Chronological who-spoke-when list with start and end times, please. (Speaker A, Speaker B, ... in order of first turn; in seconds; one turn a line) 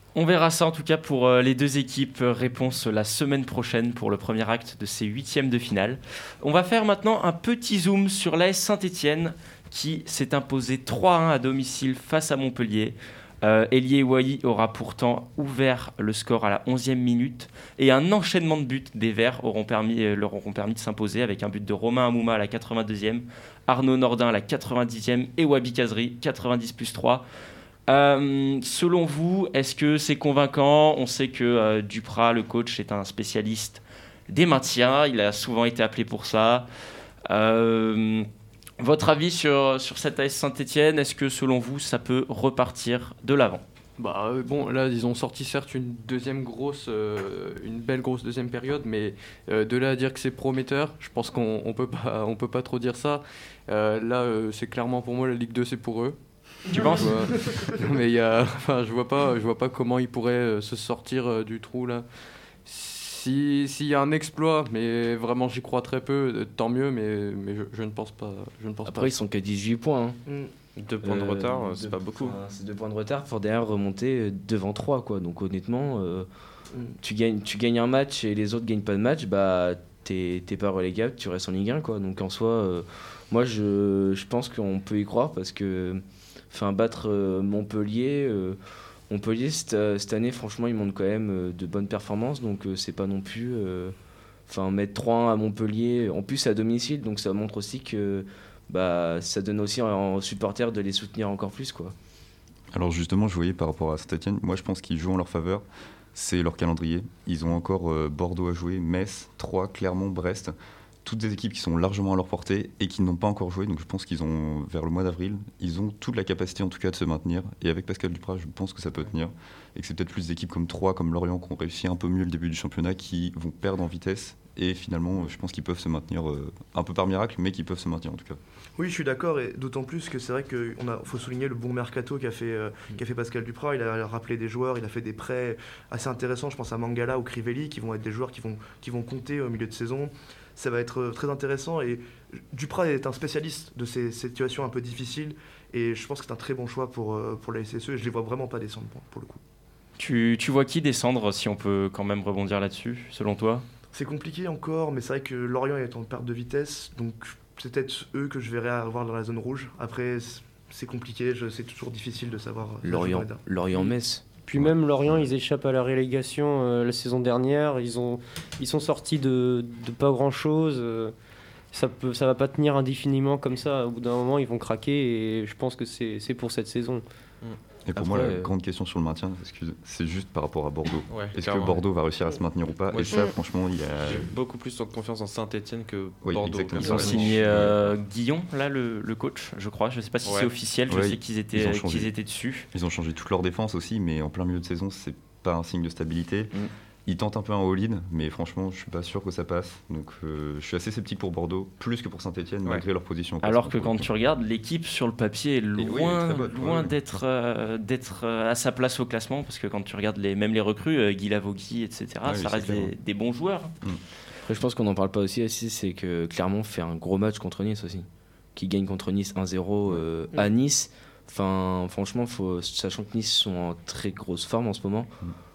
Speaker A: 0.1-27.2
Speaker A: 27.9-36.7
Speaker A: 37.3-38.3
Speaker A: 38.8-43.6
Speaker B: 44.0-56.2
Speaker A: 56.7-57.2
Speaker B: 56.8-62.0
Speaker B: 62.6-69.2
Speaker C: 68.8-70.2
Speaker D: 70.3-70.5
Speaker E: 70.8-72.4
Speaker C: 71.0-76.3
Speaker C: 77.0-88.6
Speaker C: 89.1-93.9
Speaker C: 94.5-101.9
Speaker F: 102.7-110.5
Speaker F: 111.0-128.4
Speaker D: 128.8-149.4
Speaker A: 150.0-153.7
Speaker D: 153.9-163.4
Speaker C: 162.8-164.2
Speaker G: 164.4-171.1
Speaker G: 171.7-177.0
Speaker F: 177.9-184.3
Speaker C: 177.9-178.5
Speaker E: 181.1-181.8
Speaker E: 182.9-183.3
Speaker E: 184.0-187.4
Speaker F: 186.2-187.9
Speaker A: 186.8-192.7
Speaker E: 190.2-190.5
Speaker F: 190.9-192.1
Speaker F: 192.7-196.5
Speaker F: 197.1-204.1
Speaker A: 203.4-213.7
Speaker F: 205.8-206.9
Speaker F: 212.2-212.9
Speaker C: 214.5-225.1